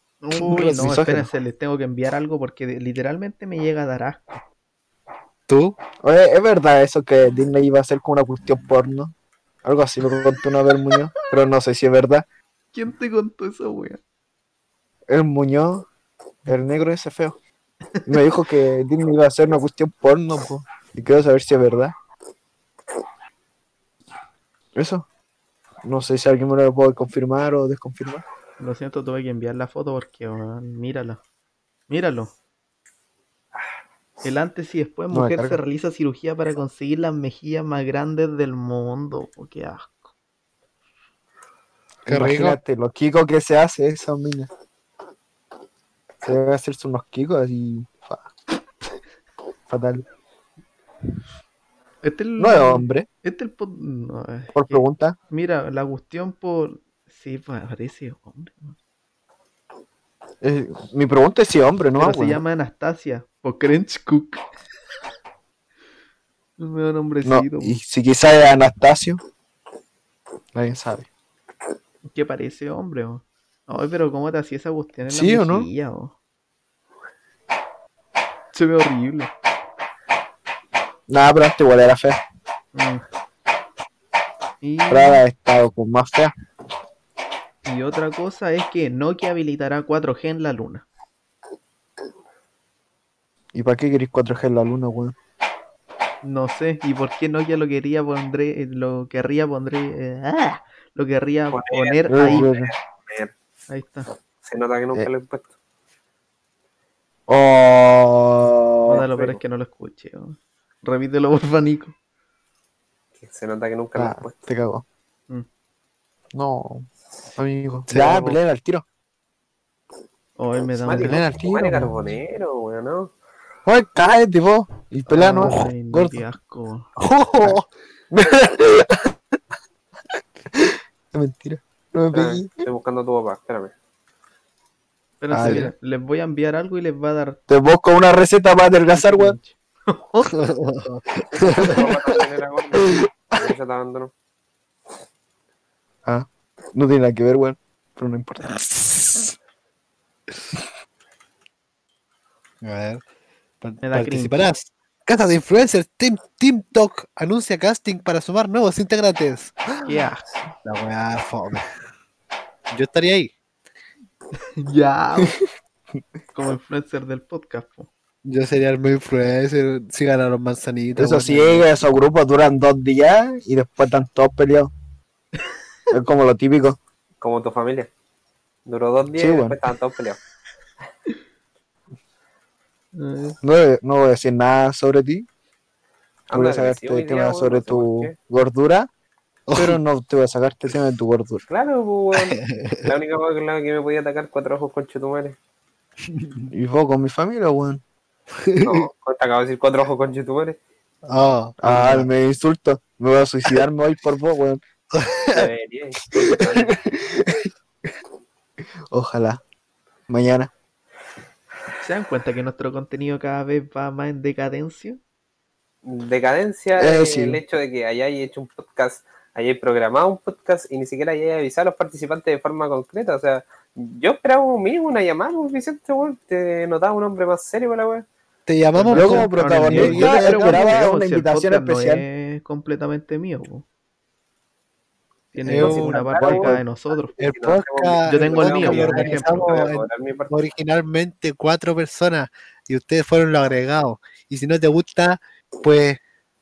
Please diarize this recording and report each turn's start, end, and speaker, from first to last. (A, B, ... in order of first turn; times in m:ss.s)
0:00.2-0:04.4 A
0:00.4-0:01.3 B
0:05.5-0:05.8 C
0:06.0-0:12.2 B
0:12.7-0:14.0 A
0:15.1-0:15.9 B
0:16.5-0:17.4 B
0:18.0-0:21.9 B
0:24.7-0:25.0 B
0:25.8-0:28.2 B
0:28.6-0:31.2 A
0:31.9-0:32.3 A
0:34.2-0:40.0 A
0:35.1-0:35.6 B
0:42.0-0:44.5 B
0:42.1-0:42.6 C
0:46.2-0:48.3 B
0:49.7-0:50.0 B
0:52.0-0:58.8 A
0:52.4-0:53.1 B
0:54.5-0:55.2 B
1:00.4-1:02.4 B
1:02.0-1:04.4 A
1:06.6-1:07.8 A
1:07.2-1:09.2 B
1:10.5-1:11.1 B
1:12.0-1:16.1 A
1:15.1-1:15.7 B
1:18.5-1:19.3 A
1:21.1-1:22.2 B
1:22.7-1:23.0 A
1:24.6-1:25.2 A
1:24.9-1:26.3 B
1:27.6-1:30.8 A
1:33.5-1:35.2 B
1:36.2-1:42.5 A
1:41.5-1:43.3 D
1:42.1-1:42.7 B
1:43.7-1:44.1 A
1:44.4-1:45.5 D
1:47.3-1:49.0 B
1:48.8-1:51.9 A
1:48.9-1:49.4 D
1:53.2-1:54.4 D
1:54.0-1:54.8 B
1:56.3-1:58.8 B
1:57.9-1:58.4 C
2:00.4-2:01.2 A
2:00.8-2:03.1 D
2:00.9-2:01.9 B
2:03.6-2:06.1 B
2:05.1-2:06.9 A
2:05.4-2:05.7 C
2:07.0-2:07.7 C
2:08.1-2:09.1 B
2:10.5-2:12.5 B
2:12.1-2:13.7 D
2:15.2-2:17.4 A
2:15.3-2:15.7 B
2:17.5-2:19.3 B
2:18.9-2:20.3 A
2:20.3-2:21.9 C
2:21.3-2:24.1 D
2:22.8-2:23.4 B
2:26.0-2:29.0 B
2:32.6-2:33.0 C
2:33.6-2:39.8 C
2:33.8-2:34.4 A
2:39.8-2:40.2 A
2:40.6-2:41.7 C
2:42.7-2:43.3 C
2:44.6-2:45.4 A
2:46.3-2:47.9 A
2:48.2-2:51.7 C
2:51.0-2:54.7 B
2:55.9-2:56.8 B
2:57.2-2:57.9 D
2:58.6-3:00.2 D
2:59.1-2:59.6 B
3:02.9-3:03.4 A
3:03.4-3:05.2 B
3:06.3-3:08.1 D
3:06.3-3:08.9 B
3:09.5-3:09.8 C
3:09.5-3:11.4 B
3:11.5-3:15.4 D
3:12.2-3:12.9 C
3:16.1-3:16.5 C
3:16.5-3:17.8 B
3:18.4-3:18.8 C
3:18.6-3:20.6 D
3:21.1-3:22.1 C
3:21.6-3:24.6 B
3:24.9-3:25.5 C
3:25.3-3:26.8 D
3:26.2-3:27.5 B
3:28.9-3:29.4 B
3:30.1-3:30.5 B
3:31.8-3:35.0 A
3:35.8-3:48.0 D
3:36.8-3:37.4 B
3:48.5-3:50.6 C
3:48.7-3:53.6 A
3:48.9-3:52.0 B
3:55.3-3:57.1 A
3:55.4-3:56.0 C
3:55.6-3:56.6 D
3:56.2-3:56.6 B
3:57.1-4:00.3 D
3:57.2-4:06.0 C
3:58.1-3:59.5 A